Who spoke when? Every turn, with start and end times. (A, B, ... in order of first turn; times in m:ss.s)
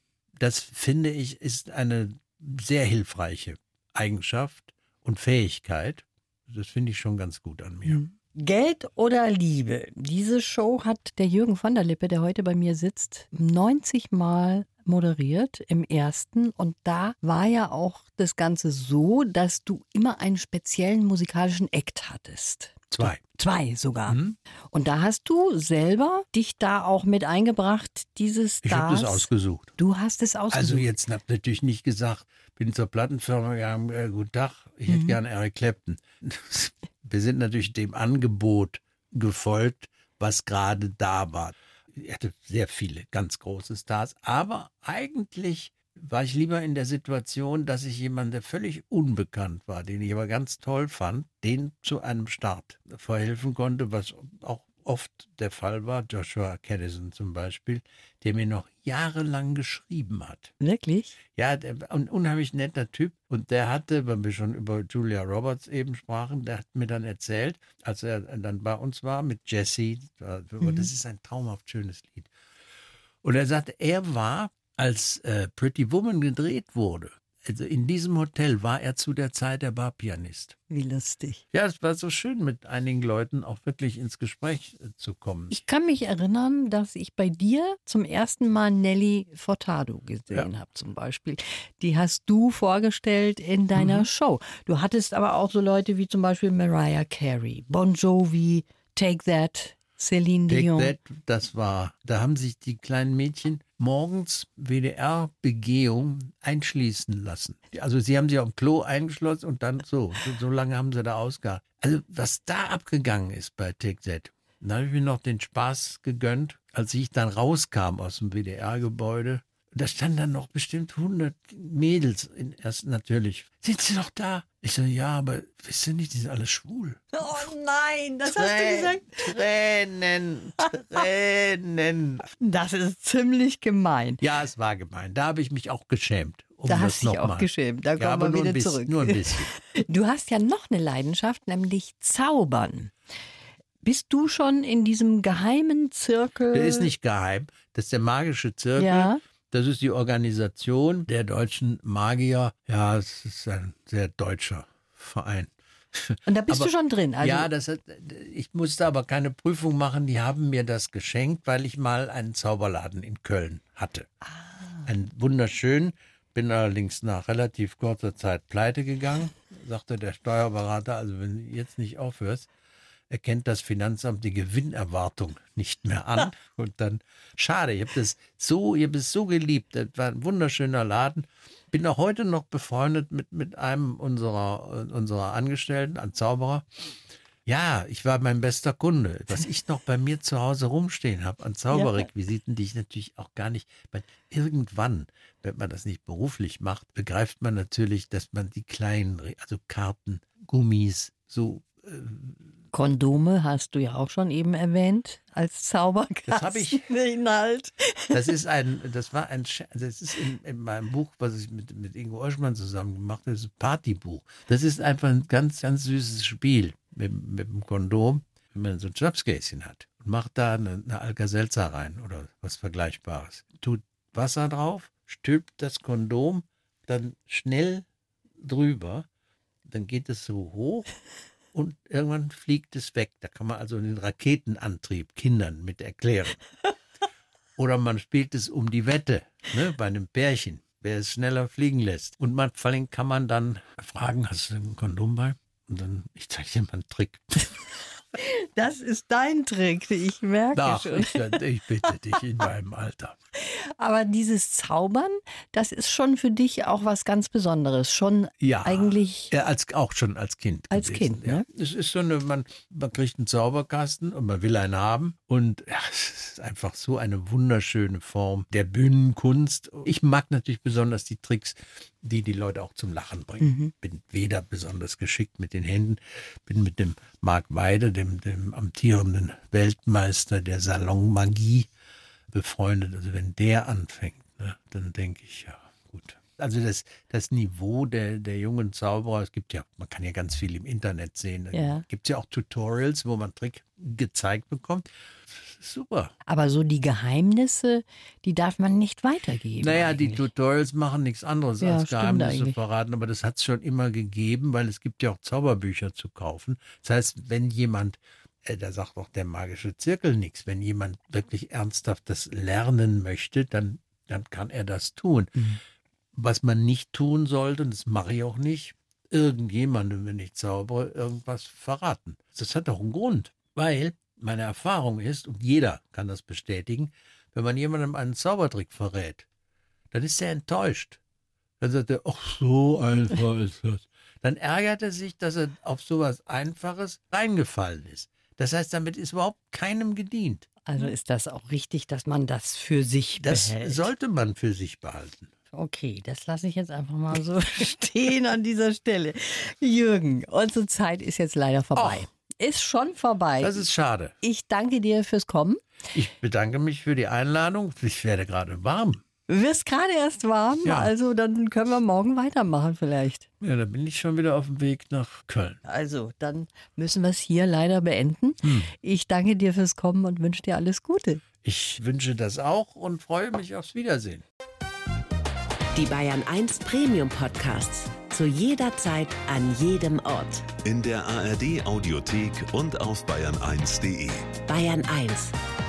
0:00.4-0:08.0 A
0:07.9-0:24.2 B
0:22.9-0:23.2 A
0:24.1-0:24.4 A
0:24.7-0:30.9 B
0:28.6-0:29.8 A
0:30.5-1:00.5 A
0:34.9-0:35.2 B
1:00.6-1:01.1 B
1:01.3-1:12.3 A
1:10.6-1:10.9 B
1:13.2-1:20.6 A
1:20.7-1:21.4 B
1:21.5-1:25.6 A
1:25.5-1:41.0 B
1:33.8-1:34.1 A
1:40.5-2:07.4 A
2:07.1-2:09.2 B
2:08.3-2:12.3 A
2:12.4-2:14.2 B
2:14.2-2:19.5 A
2:16.7-2:22.9 B
2:23.8-2:26.9 B
2:26.5-2:44.1 A
2:28.8-2:29.2 B
2:36.3-2:37.5 B
2:44.8-2:52.5 A
2:53.1-3:06.8 A
3:07.5-3:22.4 A
3:22.7-3:28.3 B
3:26.3-3:26.8 A
3:28.1-3:47.9 A
3:48.4-3:49.1 A
3:49.7-3:50.9 A
3:51.5-3:56.4 A
3:57.6-4:07.6 A
4:08.2-4:11.3 B
4:10.5-4:13.2 A
4:13.4-4:19.3 B
4:18.4-4:41.7 A
4:20.7-4:21.5 B
4:33.4-4:33.7 B
4:42.3-4:56.1 A
4:51.5-4:51.8 B
4:56.3-5:00.2 B
4:59.6-5:15.6 A
5:01.6-5:02.6 B
5:16.1-5:29.3 A
5:29.9-5:31.0 A
5:31.6-5:40.5 A
5:40.6-5:43.9 B
5:43.2-5:45.3 A
5:45.5-5:53.6 B
5:51.8-5:52.1 A
5:53.4-5:54.2 A
5:54.2-5:55.6 B
5:55.9-5:59.0 A
5:59.3-6:03.3 B
6:00.6-6:00.9 A
6:03.4-6:05.6 A
6:05.6-6:11.2 B
6:08.4-6:08.7 A
6:11.4-6:14.2 A
6:15.8-6:20.5 C
6:20.6-6:24.4 D
6:24.5-6:25.3 C